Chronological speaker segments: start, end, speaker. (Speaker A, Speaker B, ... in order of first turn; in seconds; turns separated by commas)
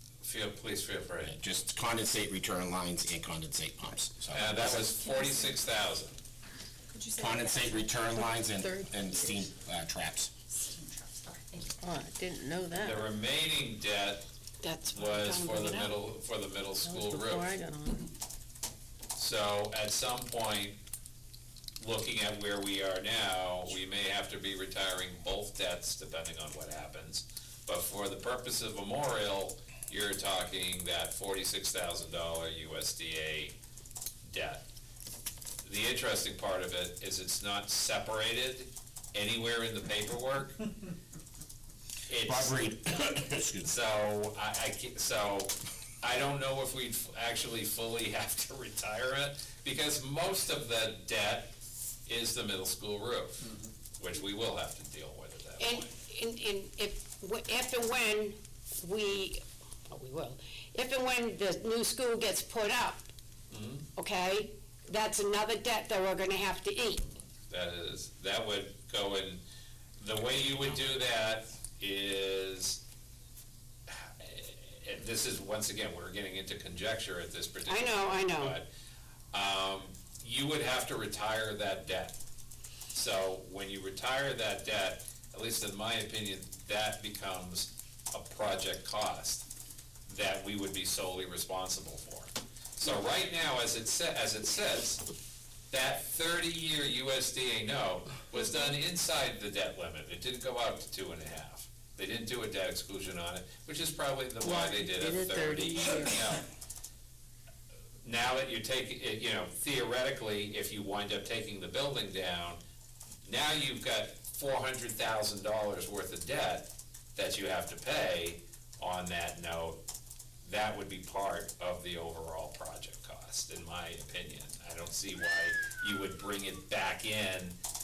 Speaker A: 0.2-1.4, Speaker B: 1.2-5.0, Speaker A: 4.3-6.2, Speaker C: 5.0-5.6, Speaker C: 6.9-7.9, Speaker B: 7.2-10.3, Speaker D: 8.0-9.4, Speaker C: 10.5-11.8, Speaker D: 11.8-13.1, Speaker A: 12.7-14.2, Speaker E: 14.6-15.9, Speaker A: 14.9-17.5, Speaker D: 16.8-18.1, Speaker A: 19.2-20.8, Speaker A: 21.8-33.5, Speaker A: 34.3-34.7, Speaker A: 35.6-40.7, Speaker A: 42.1-42.8, Speaker B: 42.2-43.7, Speaker A: 43.6-51.5, Speaker A: 52.1-55.9, Speaker E: 55.6-63.1, Speaker A: 63.5-63.9, Speaker E: 64.0-67.1, Speaker A: 67.5-69.4, Speaker A: 70.0-72.8, Speaker A: 73.9-78.7, Speaker E: 77.7-78.6, Speaker A: 79.3-82.2, Speaker A: 82.9-89.5, Speaker A: 90.1-95.0, Speaker A: 95.7-106.4, Speaker D: 104.4-106.4, Speaker A: 108.0-112.6, Speaker A: 113.2-119.8, Speaker A: 120.4-127.5